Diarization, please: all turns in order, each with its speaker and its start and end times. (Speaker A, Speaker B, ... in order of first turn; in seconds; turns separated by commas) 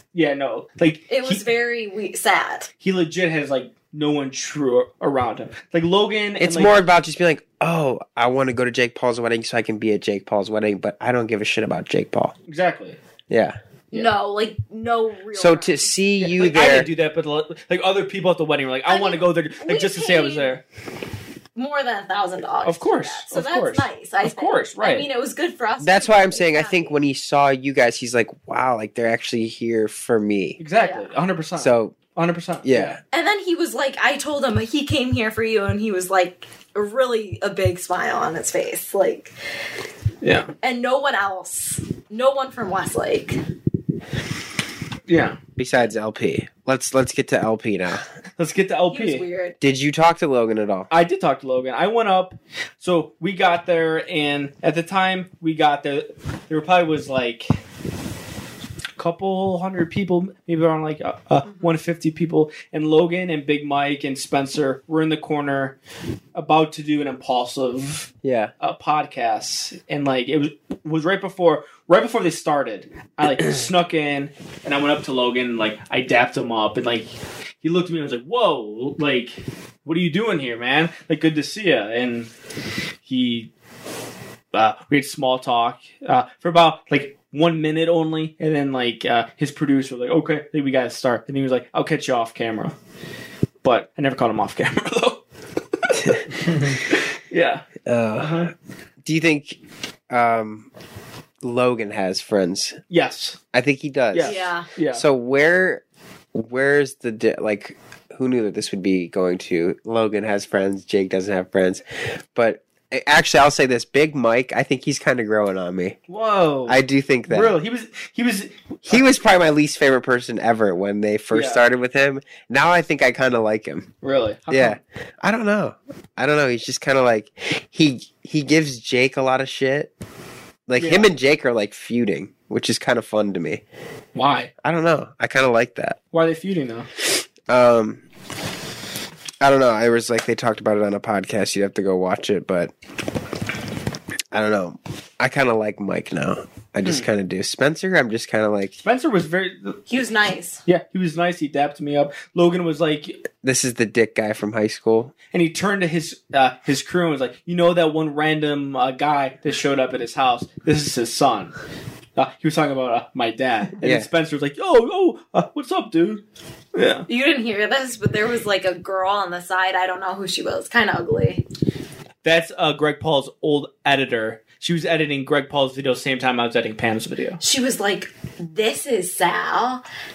Speaker A: 0.1-1.4, Speaker B: 1.1-2.7, Speaker A: 2.8-6.8, Speaker C: 6.4-12.3, Speaker A: 12.5-13.0, Speaker C: 13.3-13.6, Speaker B: 13.9-15.9, Speaker C: 15.3-16.9, Speaker A: 16.2-20.6, Speaker B: 18.9-20.5, Speaker B: 21.6-26.9, Speaker A: 22.6-25.1, Speaker C: 25.8-30.6, Speaker A: 30.6-33.0, Speaker B: 30.8-31.1, Speaker C: 31.6-32.0, Speaker C: 32.6-33.0, Speaker B: 33.1-39.3, Speaker A: 40.2-40.5, Speaker B: 40.6-43.4, Speaker A: 45.1-45.4, Speaker C: 45.6-48.0, Speaker A: 48.4-49.2, Speaker B: 48.9-49.5, Speaker C: 49.6-50.9, Speaker A: 50.9-57.5, Speaker A: 59.0-65.8, Speaker A: 66.3-77.1, Speaker C: 68.2-68.5, Speaker A: 77.6-82.3, Speaker A: 83.0-83.5, Speaker A: 84.5-92.7, Speaker A: 93.6-95.2, Speaker A: 95.8-98.5, Speaker C: 97.8-98.5, Speaker C: 99.0-99.6, Speaker C: 100.1-100.7, Speaker C: 101.4-102.8, Speaker A: 102.9-103.4, Speaker C: 103.5-105.8, Speaker A: 104.1-105.0, Speaker B: 104.2-104.7, Speaker C: 106.3-116.0, Speaker A: 116.1-119.0, Speaker C: 116.7-117.6, Speaker C: 118.8-123.9, Speaker A: 121.3-121.6, Speaker A: 124.0-124.8, Speaker C: 124.5-129.9, Speaker C: 130.7-133.6, Speaker A: 130.8-131.1, Speaker A: 134.1-134.5, Speaker C: 134.6-136.0, Speaker A: 136.1-136.9, Speaker C: 137.5-138.0, Speaker C: 139.4-142.7, Speaker C: 144.3-148.7, Speaker A: 148.8-149.8, Speaker B: 149.9-150.6, Speaker A: 150.7-153.2, Speaker C: 153.4-155.1, Speaker A: 155.3-161.5, Speaker A: 162.2-166.2, Speaker C: 163.8-164.1, Speaker A: 166.7-167.1, Speaker B: 167.1-171.4, Speaker A: 172.2-177.4, Speaker B: 177.4-179.8